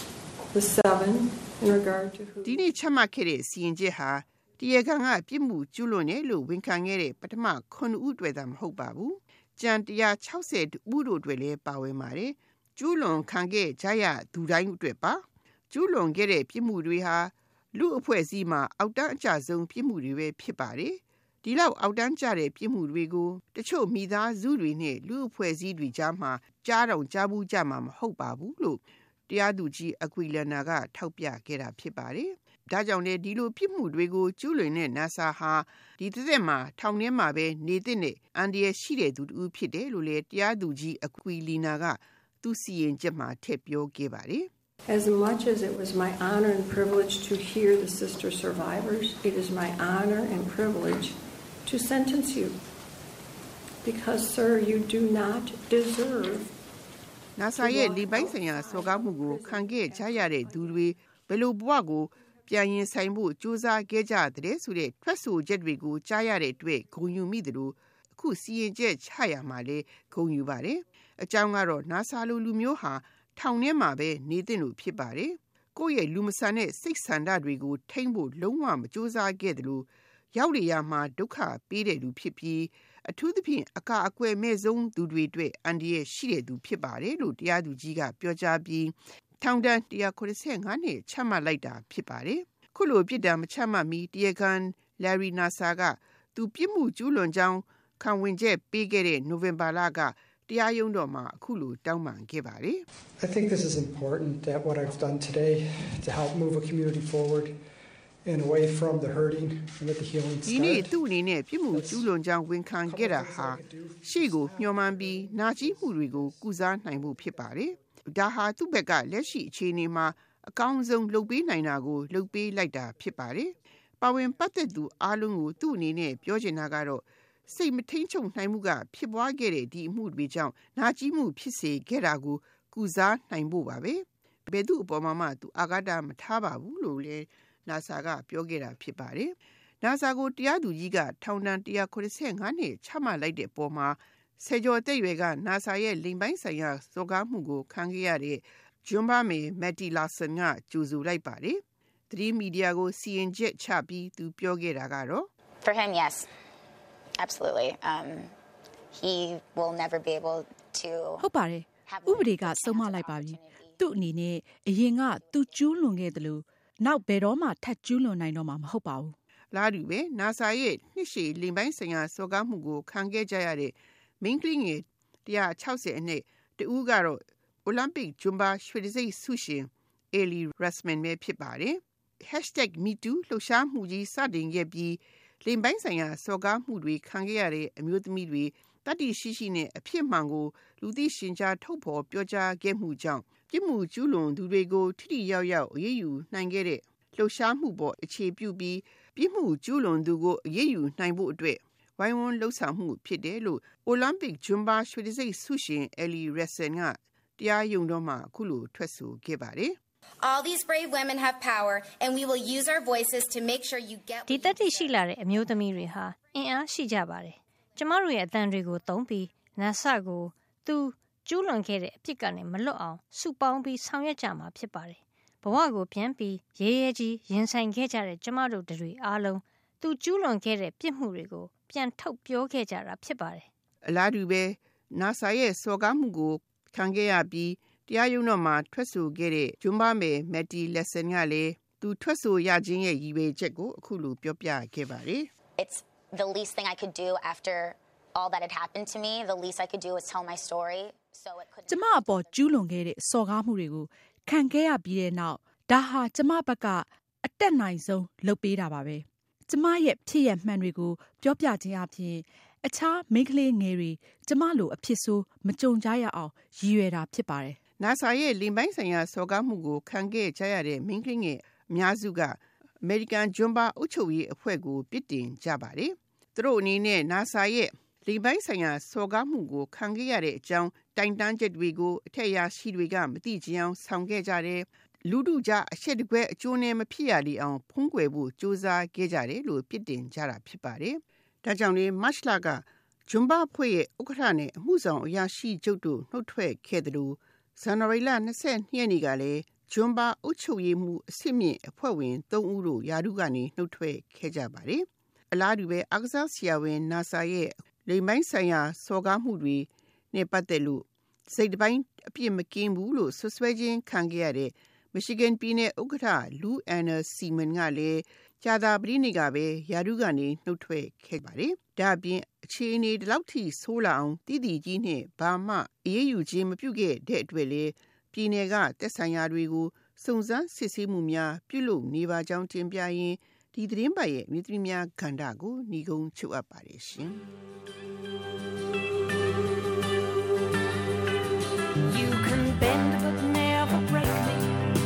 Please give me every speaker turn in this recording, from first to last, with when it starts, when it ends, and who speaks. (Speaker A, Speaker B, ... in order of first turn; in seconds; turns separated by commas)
Speaker A: 0.5-2.6, Speaker B: 2.4-44.5, Speaker A: 44.9-52.6, Speaker A: 53.8-56.5, Speaker B: 57.4-102.8, Speaker A: 57.5-60.9, Speaker C: 103.2-107.6, Speaker C: 108.2-111.0, Speaker B: 110.5-155.3, Speaker C: 111.7-112.1, Speaker C: 112.8-116.4, Speaker D: 155.6-156.3, Speaker D: 157.2-158.3, Speaker D: 158.9-161.3, Speaker E: 161.2-169.2, Speaker D: 161.8-163.9, Speaker D: 165.1-166.2, Speaker B: 169.5-209.8, Speaker F: 210.2-214.6, Speaker G: 214.3-233.5, Speaker B: 233.9-245.3, Speaker D: 245.6-252.6, Speaker E: 251.7-267.6, Speaker B: 267.8-337.2, Speaker H: 341.9-344.5